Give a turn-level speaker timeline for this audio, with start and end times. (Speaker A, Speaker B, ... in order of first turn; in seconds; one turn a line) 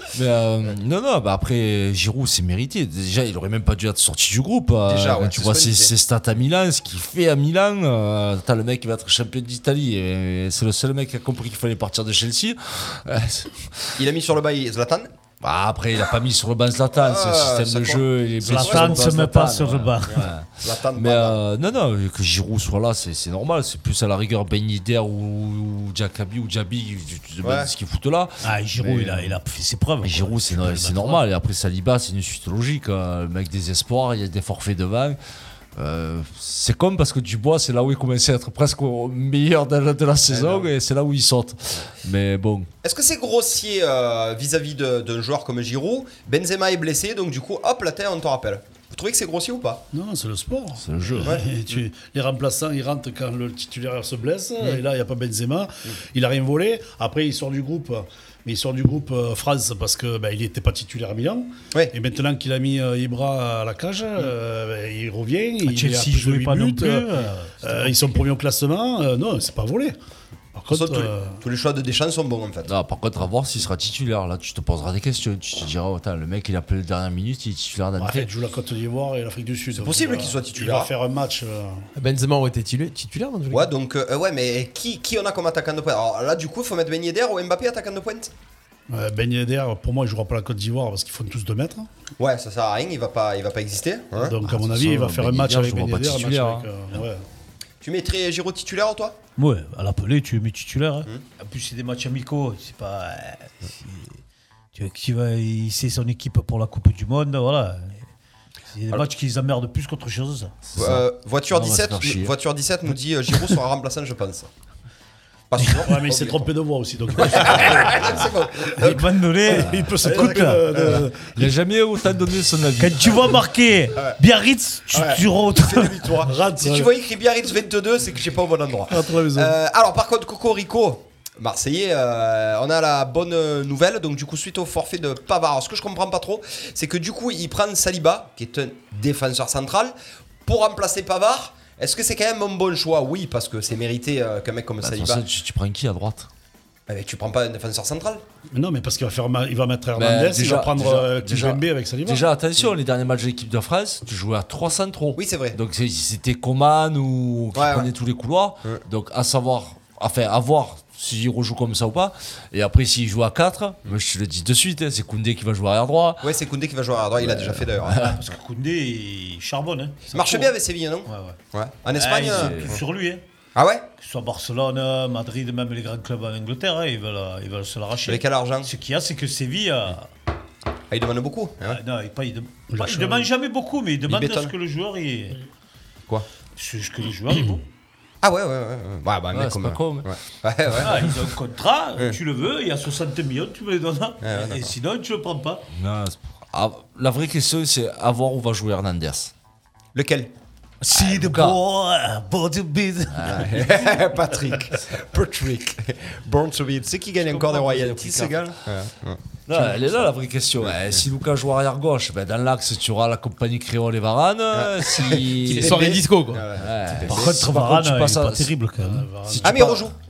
Speaker A: 0.1-14.0
Speaker B: 4.8-5.9
Speaker B: 14.0-15.1
Speaker A: 15.4-29.4
Speaker B: 16.9-19.1
Speaker C: 18.4-20.3
Speaker B: 20.1-21.4
Speaker B: 27.4-27.7
Speaker C: 28.4-31.2
Speaker A: 30.0-35.2
Speaker A: 35.8-42.7
Speaker B: 40.3-40.7
Speaker B: 42.8-49.8
Speaker D: 49.9-70.0
Speaker A: 50.8-51.3
Speaker B: 51.2-51.5
Speaker C: 65.6-68.1
Speaker D: 70.5-71.4
Speaker B: 70.7-72.7
Speaker A: 72.7-78.3
Speaker D: 78.0-81.9
Speaker B: 79.7-80.9
Speaker E: 82.0-83.7
Speaker B: 83.5-88.3
Speaker D: 88.9-91.9
Speaker B: 92.2-94.3
Speaker D: 94.1-97.2
Speaker A: 94.4-96.7
Speaker B: 97.8-99.2
Speaker C: 99.4-104.2
Speaker C: 104.7-108.1
Speaker C: 108.7-110.5
Speaker A: 110.7-112.3
Speaker B: 110.8-114.5
Speaker B: 115.5-116.5
Speaker D: 115.8-118.2
Speaker B: 117.2-121.1
Speaker C: 118.8-120.8
Speaker D: 119.4-121.4
Speaker A: 119.5-120.2
Speaker A: 121.3-123.4
Speaker C: 122.8-126.1
Speaker B: 124.9-139.9
Speaker D: 126.3-126.9
Speaker D: 128.9-129.5
Speaker B: 140.4-145.2
Speaker A: 144.8-146.3
Speaker B: 146.9-148.2
Speaker D: 148.5-152.2
Speaker A: 149.9-166.3
Speaker B: 155.2-155.6
Speaker B: 157.5-157.9
Speaker B: 166.2-168.2
Speaker A: 167.2-168.2
Speaker C: 168.1-170.5
Speaker B: 170.1-172.8
Speaker C: 171.1-171.4
Speaker C: 171.9-173.2
Speaker A: 172.2-172.8
Speaker B: 173.5-173.9
Speaker C: 174.0-180.1
Speaker B: 178.0-178.7
Speaker B: 180.9-181.8
Speaker C: 181.7-185.4
Speaker D: 182.7-183.3
Speaker B: 184.1-184.5
Speaker C: 186.6-187.6
Speaker B: 188.2-191.1
Speaker A: 189.3-190.2
Speaker C: 190.8-195.6
Speaker B: 194.2-194.7
Speaker A: 195.7-199.3
Speaker B: 199.9-200.3
Speaker C: 200.8-203.7
Speaker A: 200.9-201.6
Speaker A: 203.1-203.6
Speaker B: 203.2-210.0
Speaker A: 207.3-208.3
Speaker A: 209.5-215.9
Speaker B: 210.6-210.9
Speaker B: 214.5-217.3
Speaker E: 215.4-216.4
Speaker A: 216.6-218.5
Speaker C: 216.9-219.1
Speaker D: 218.8-219.9
Speaker A: 219.3-219.8
Speaker B: 219.4-219.9